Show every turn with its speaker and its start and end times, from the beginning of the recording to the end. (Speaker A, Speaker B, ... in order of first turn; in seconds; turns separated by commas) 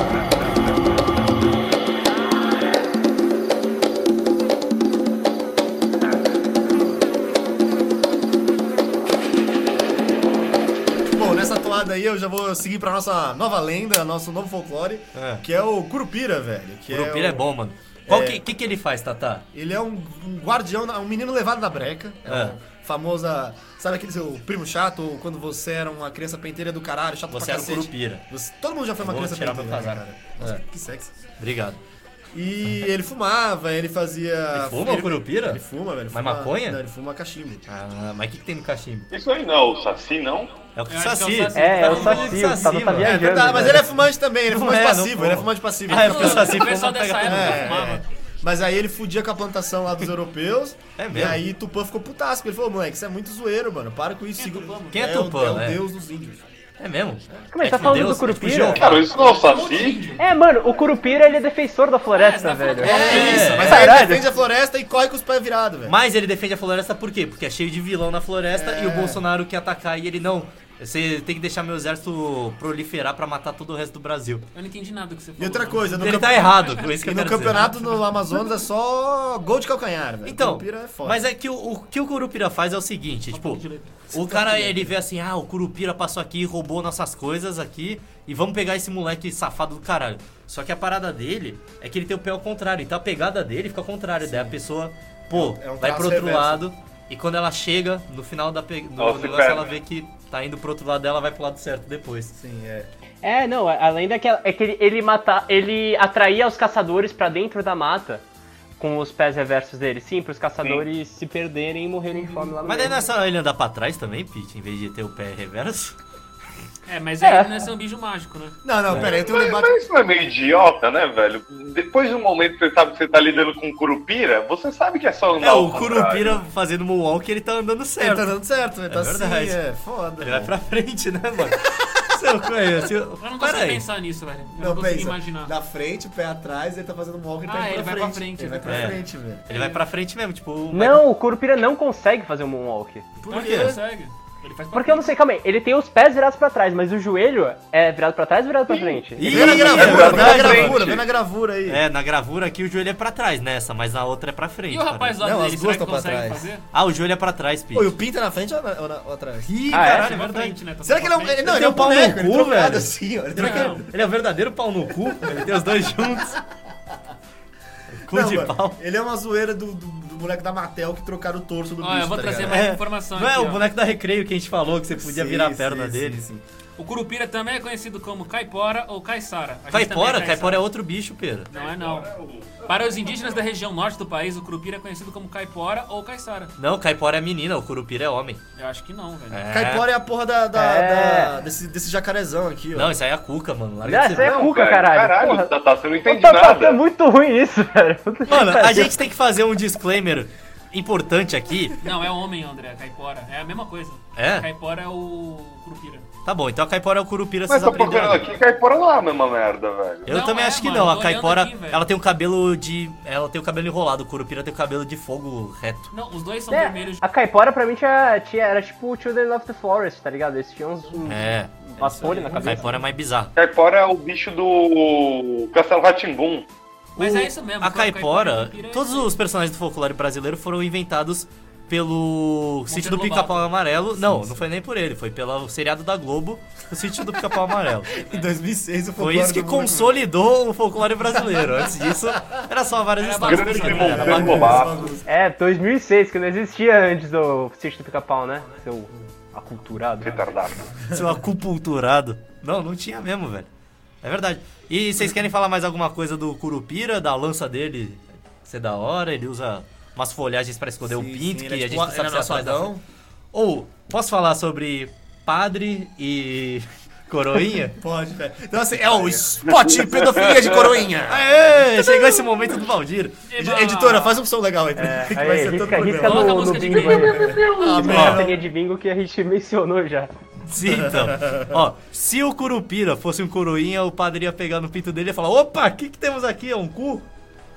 Speaker A: 11.0-17.5, Speaker B: 15.1-15.4, Speaker B: 16.9-19.5, Speaker A: 18.1-18.4, Speaker A: 19.5-31.1, Speaker B: 22.3-22.6, Speaker B: 27.3-28.2, Speaker B: 29.0-30.6, Speaker B: 31.4-31.8, Speaker A: 32.3-37.6, Speaker B: 34.5-36.8, Speaker B: 37.7-39.1, Speaker C: 39.1-40.5, Speaker B: 40.8-43.9, Speaker D: 40.9-42.9, Speaker E: 41.5-43.9, Speaker A: 43.0-46.7, Speaker B: 44.5-47.7, Speaker D: 45.9-48.0, Speaker A: 47.2-56.4, Speaker B: 51.0-51.4, Speaker D: 54.4-55.0, Speaker B: 54.9-55.8, Speaker B: 56.8-59.1, Speaker E: 57.5-58.9, Speaker C: 58.8-60.0, Speaker D: 58.9-60.2, Speaker E: 60.2-64.3, Speaker D: 62.1-64.2, Speaker B: 62.8-63.9, Speaker A: 62.9-66.0, Speaker B: 65.9-74.5, Speaker A: 68.5-69.2, Speaker D: 74.5-78.0, Speaker A: 75.4-81.2, Speaker B: 76.0-77.8, Speaker B: 80.2-102.3, Speaker D: 83.3-84.0, Speaker A: 84.1-84.9, Speaker A: 94.2-94.6, Speaker A: 95.3-96.7, Speaker C: 99.0-99.7, Speaker A: 102.3-102.9, Speaker E: 103.2-108.2, Speaker E: 108.8-113.0, Speaker B: 112.7-116.0, Speaker D: 116.9-118.6, Speaker E: 117.2-117.5, Speaker A: 118.6-119.8, Speaker C: 119.0-126.4, Speaker B: 125.4-128.3, Speaker A: 128.0-130.6, Speaker B: 128.9-129.6, Speaker B: 130.2-133.8, Speaker D: 133.2-135.5, Speaker A: 134.6-139.4, Speaker D: 137.5-139.8, Speaker B: 138.7-139.0, Speaker B: 139.5-141.0, Speaker E: 140.7-143.1, Speaker A: 143.2-143.8, Speaker D: 143.3-145.1, Speaker B: 143.3-143.7, Speaker E: 144.7-149.5, Speaker C: 148.7-151.0, Speaker B: 149.2-151.0, Speaker A: 149.2-151.8, Speaker B: 151.7-155.2, Speaker D: 154.7-156.7, Speaker A: 155.2-156.5, Speaker B: 156.7-158.0, Speaker A: 157.7-159.5, Speaker B: 159.5-160.6, Speaker E: 159.7-160.1, Speaker D: 159.7-161.4, Speaker A: 160.8-163.9, Speaker B: 161.4-166.4, Speaker D: 163.4-163.9, Speaker B: 168.0-168.8, Speaker A: 168.1-172.6, Speaker D: 171.8-173.6, Speaker B: 172.4-176.2, Speaker A: 175.0-176.4, Speaker D: 176.8-180.6, Speaker B: 179.7-181.5, Speaker D: 181.5-182.1, Speaker C: 181.5-182.7, Speaker D: 182.6-186.6, Speaker B: 186.6-188.4, Speaker D: 188.6-189.4, Speaker B: 189.3-189.9, Speaker A: 189.5-192.9, Speaker E: 190.5-191.3, Speaker B: 192.7-194.4, Speaker E: 193.8-195.5, Speaker C: 194.2-196.8, Speaker E: 196.1-199.0, Speaker B: 198.3-201.8, Speaker D: 201.8-206.1, Speaker B: 204.2-204.5, Speaker B: 206.2-208.3, Speaker C: 207.5-210.1, Speaker D: 210.1-211.9, Speaker B: 210.1-215.9, Speaker D: 215.9-217.0, Speaker E: 216.5-222.8, Speaker B: 221.1-221.5, Speaker A: 221.6-222.7, Speaker B: 222.4-223.3, Speaker C: 223.4-226.5, Speaker D: 227.0-229.2, Speaker B: 227.0-237.9, Speaker D: 232.7-233.5, Speaker A: 234.0-234.4, Speaker D: 237.9-238.3, Speaker A: 238.0-240.0, Speaker B: 239.0-244.7, Speaker D: 243.0-244.3, Speaker C: 243.2-244.9, Speaker A: 243.7-245.1, Speaker E: 245.1-250.3, Speaker C: 250.0-250.8, Speaker B: 250.9-253.5, Speaker B: 254.0-262.7, Speaker A: 260.8-262.8, Speaker B: 263.3-267.8, Speaker A: 267.8-271.3, Speaker C: 269.7-270.8, Speaker B: 271.1-273.2, Speaker D: 273.3-274.2, Speaker A: 273.4-278.4, Speaker E: 274.8-280.1, Speaker D: 276.0-277.5, Speaker C: 276.8-277.8, Speaker B: 277.8-278.2, Speaker B: 280.5-287.1, Speaker A: 280.7-281.6